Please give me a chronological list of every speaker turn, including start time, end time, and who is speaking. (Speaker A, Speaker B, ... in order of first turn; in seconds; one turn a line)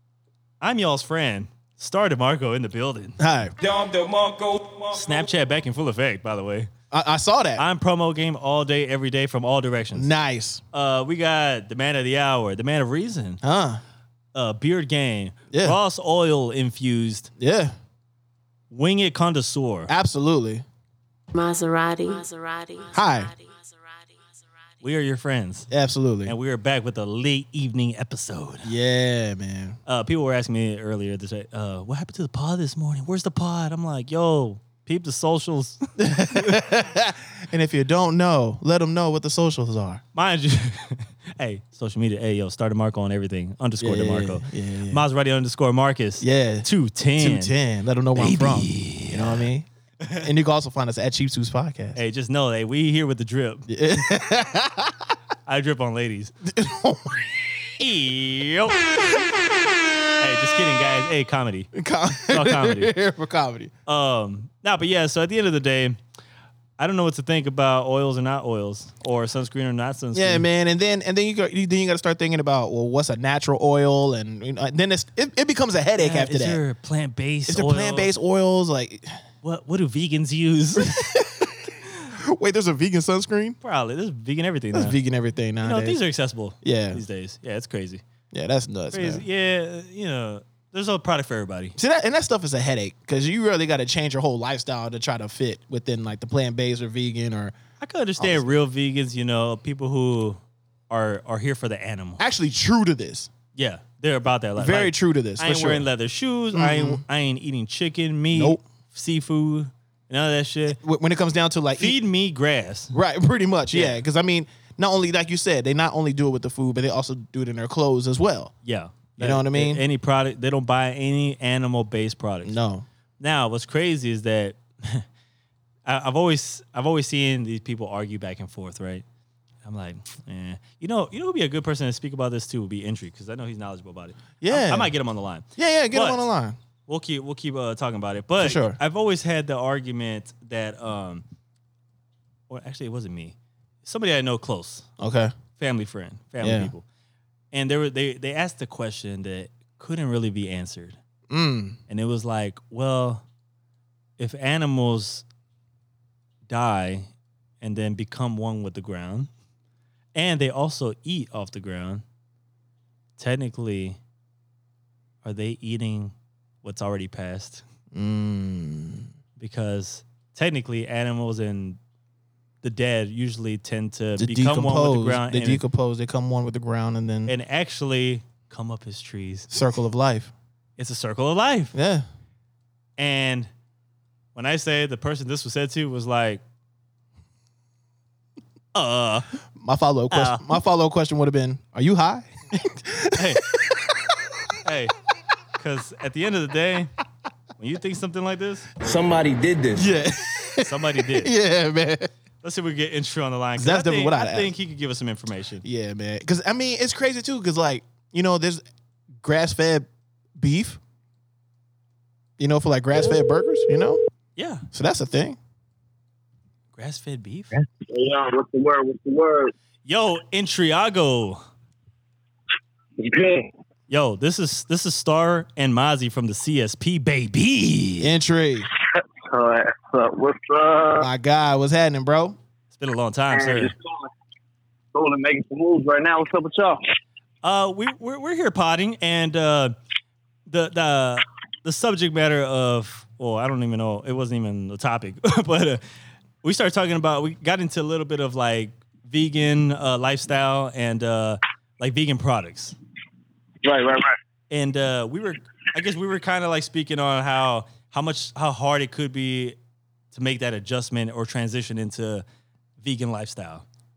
Speaker A: 0.6-3.2
Speaker B: 3.2-3.5
Speaker C: 3.6-5.3
Speaker A: 4.9-6.7
Speaker B: 6.9-7.6
Speaker A: 7.6-10.1
Speaker B: 9.9-10.6
Speaker A: 10.7-13.4
Speaker B: 13.4-13.8
Speaker A: 14.3-17.3
Speaker B: 15.5-15.8
Speaker B: 17.4-17.7
Speaker A: 18.7-19.9
Speaker B: 19.9-20.6
Speaker D: 21.3-24.3
Speaker B: 22.9-23.3
Speaker A: 24.8-25.7
Speaker B: 25.7-26.3
Speaker A: 26.2-28.7
Speaker B: 28.6-29.8
Speaker A: 29.9-36.6
Speaker B: 36.0-40.0
Speaker A: 40.1-47.5
Speaker B: 43.8-45.0
Speaker B: 46.2-49.7
Speaker A: 48.1-49.5
Speaker A: 50.0-50.3
Speaker B: 50.2-52.0
Speaker A: 52.0-53.7
Speaker B: 53.7-55.1
Speaker A: 55.5-56.3
Speaker B: 56.4-57.6
Speaker A: 57.8-59.2
Speaker A: 60.2-61.7
Speaker B: 61.7-63.7
Speaker A: 62.3-62.9
Speaker A: 63.9-66.0
Speaker A: 66.8-70.5
Speaker B: 70.1-76.6
Speaker A: 76.0-78.1
Speaker B: 77.5-79.1
Speaker A: 79.4-81.0
Speaker B: 80.8-81.6
Speaker B: 82.1-83.6
Speaker A: 83.6-85.0
Speaker B: 84.7-86.0
Speaker A: 85.6-88.0
Speaker B: 86.6-87.0
Speaker B: 88.3-89.2
Speaker A: 88.9-91.8
Speaker B: 91.8-97.5
Speaker A: 97.8-102.2
Speaker B: 98.2-98.5
Speaker B: 102.2-103.3
Speaker A: 103.5-110.8
Speaker B: 104.6-105.8
Speaker B: 106.5-107.0
Speaker B: 108.3-108.6
Speaker B: 110.8-112.0
Speaker A: 111.7-112.9
Speaker B: 112.9-118.5
Speaker A: 113.7-114.0
Speaker A: 118.6-122.6
Speaker B: 119.2-119.8
Speaker B: 122.4-122.8
Speaker A: 123.2-125.0
Speaker A: 125.8-129.0
Speaker A: 129.6-136.3
Speaker B: 134.4-134.9
Speaker B: 135.6-136.6
Speaker A: 136.9-141.2
Speaker B: 138.4-138.8
Speaker A: 142.5-144.9
Speaker B: 145.0-145.3
Speaker A: 145.6-146.8
Speaker B: 146.4-146.7
Speaker A: 147.5-151.0
Speaker B: 151.3-151.8
Speaker A: 151.9-153.2
Speaker A: 154.2-155.2
Speaker A: 156.5-157.1
Speaker A: 157.6-159.3
Speaker A: 160.1-162.0
Speaker A: 163.2-164.0
Speaker A: 165.2-167.6
Speaker B: 167.9-169.1
Speaker A: 169.4-171.8
Speaker A: 172.6-175.6
Speaker B: 174.2-177.3
Speaker A: 177.3-179.5
Speaker B: 179.5-180.3
Speaker A: 180.8-181.7
Speaker B: 181.7-182.0
Speaker A: 183.0-183.5
Speaker A: 184.3-186.4
Speaker A: 188.7-189.3
Speaker B: 189.6-194.1
Speaker A: 190.1-190.4
Speaker A: 193.1-193.4
Speaker A: 194.6-194.9
Speaker A: 195.6-196.9
Speaker A: 197.6-198.7
Speaker C: 198.8-199.9
Speaker B: 199.8-202.1
Speaker A: 200.6-201.3
Speaker A: 202.4-205.6
Speaker B: 203.6-204.5
Speaker B: 205.6-208.6
Speaker B: 209.2-210.8
Speaker B: 212.4-214.0
Speaker A: 214.4-214.6
Speaker B: 214.7-215.4
Speaker A: 216.7-217.6
Speaker E: 217.9-219.5
Speaker A: 219.8-221.4
Speaker E: 223.0-223.5
Speaker A: 223.9-228.1
Speaker B: 228.0-228.7
Speaker E: 229.2-231.1
Speaker B: 231.0-232.4
Speaker A: 232.7-233.7
Speaker E: 233.3-234.1
Speaker E: 234.9-236.8
Speaker A: 237.4-239.7
Speaker A: 240.5-245.8
Speaker A: 246.4-252.8
Speaker E: 253.6-254.2
Speaker A: 254.5-259.6
Speaker A: 260.1-262.2
Speaker A: 262.8-263.6